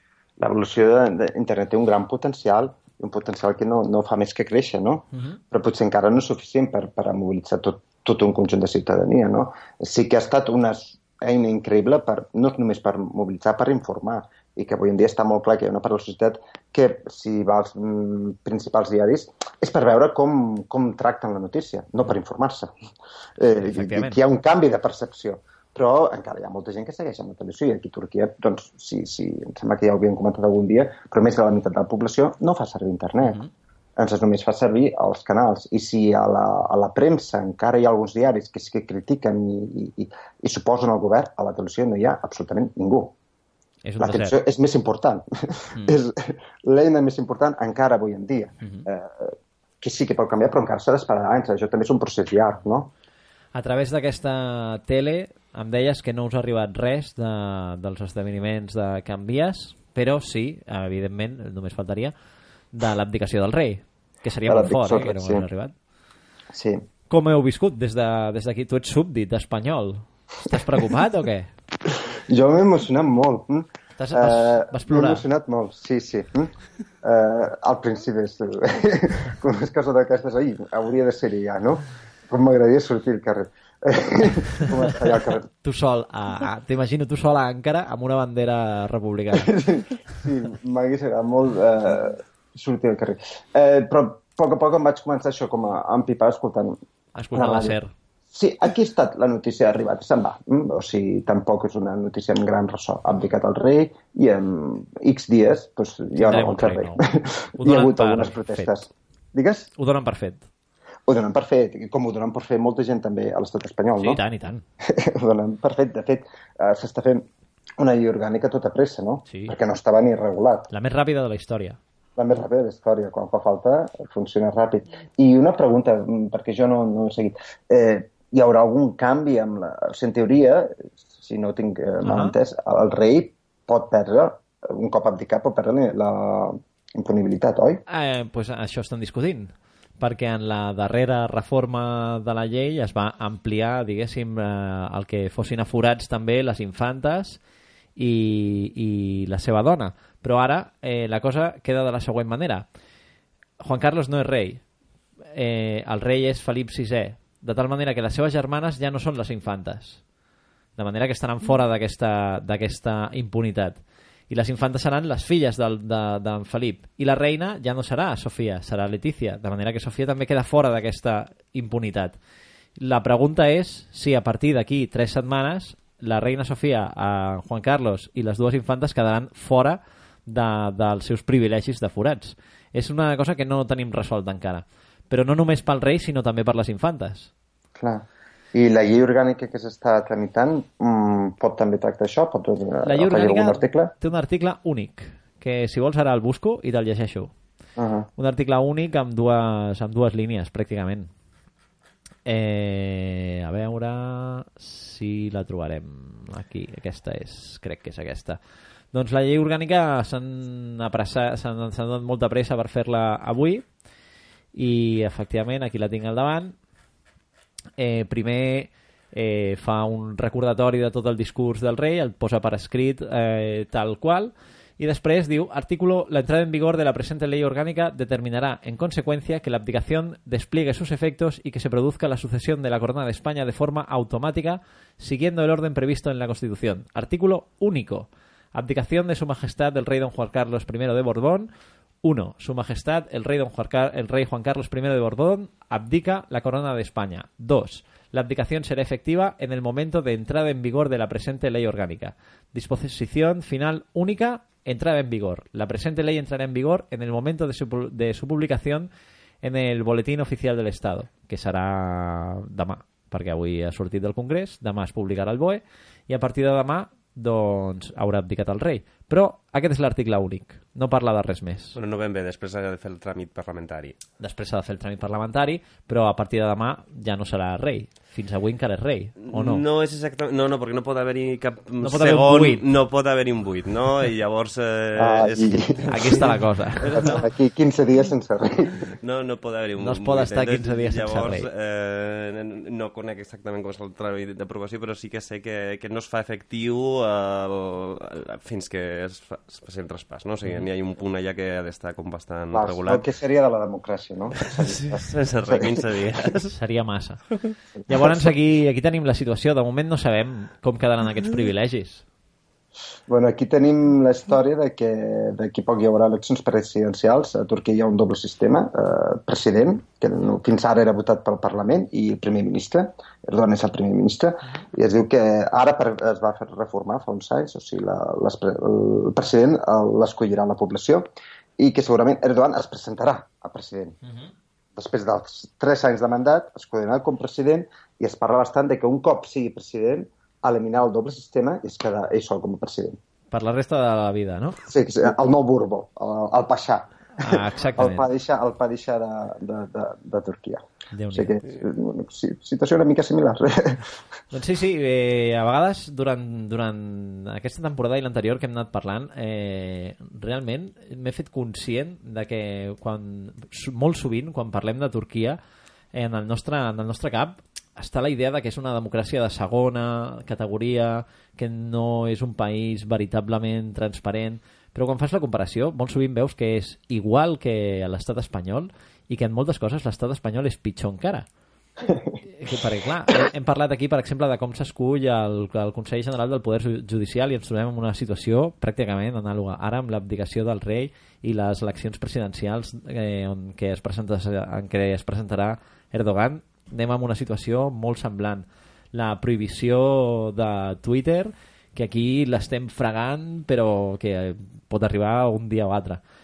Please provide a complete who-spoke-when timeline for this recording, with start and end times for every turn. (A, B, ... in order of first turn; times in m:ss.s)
0:00.4-0:22.7 A
0:05.1-0:05.4 B
0:23.4-0:33.4 A
0:23.5-0:24.2 B
0:33.2-0:33.5 B
0:34.0-0:43.2 A
0:43.8-0:44.4 B
0:44.0-0:52.9 A
0:53.6-1:02.1 B
1:02.7-1:05.7 B
1:04.5-1:05.5 A
1:06.5-1:06.8 A
1:07.1-1:11.5 B
1:11.9-1:25.5 A
1:14.0-1:15.2 B
1:25.6-1:29.6 B
1:29.3-1:36.8 A
1:37.2-1:37.9 B
1:37.3-1:37.8 A
1:38.3-1:49.7 A
1:46.2-1:47.1 B
1:47.6-1:48.7 B
1:49.8-1:50.5 B
1:51.1-1:54.2 A
1:54.0-1:54.6 B
1:54.8-1:57.3 A
1:57.8-2:00.7 A
1:59.3-1:59.6 B
2:00.7-2:01.8 B
2:02.2-2:17.8 A
2:12.0-2:12.4 B
2:17.9-2:27.4 B
2:28.0-2:32.7 B
2:33.6-2:34.6 B
2:35.3-2:40.0 B
2:40.8-2:43.8 B
2:44.3-2:52.2 B
2:52.8-3:07.3 B
3:07.8-3:13.9 A
3:12.8-3:17.3 B
3:17.8-3:18.1 A
3:18.2-3:21.1 B
3:22.3-3:28.4 B
3:28.9-3:33.7 B
3:34.6-3:36.6 B
3:37.8-4:01.5 B
4:02.0-4:18.9 B
4:19.4-4:31.8 B
4:31.8-4:34.0 C
4:34.2-4:39.6 B
4:39.2-4:47.2 C
4:41.8-4:42.7 B
4:45.0-4:46.2 A
4:45.9-4:47.2 B
4:46.9-4:48.9 A
4:49.0-5:03.1 C
4:49.8-4:51.5 B
5:02.5-5:05.9 A
5:04.5-5:06.6 C
5:06.5-5:07.3 B
5:07.9-5:12.0 B
5:07.9-5:08.3 A
5:13.1-5:31.1 A
5:31.6-5:34.0 A
5:34.8-5:43.0 A
5:43.3-5:44.6 B
5:44.7-5:53.9 A
5:47.2-5:48.1 B
5:50.9-5:51.4 B
5:54.3-6:05.4 B
6:05.9-6:21.3 B
6:22.3-6:46.0 B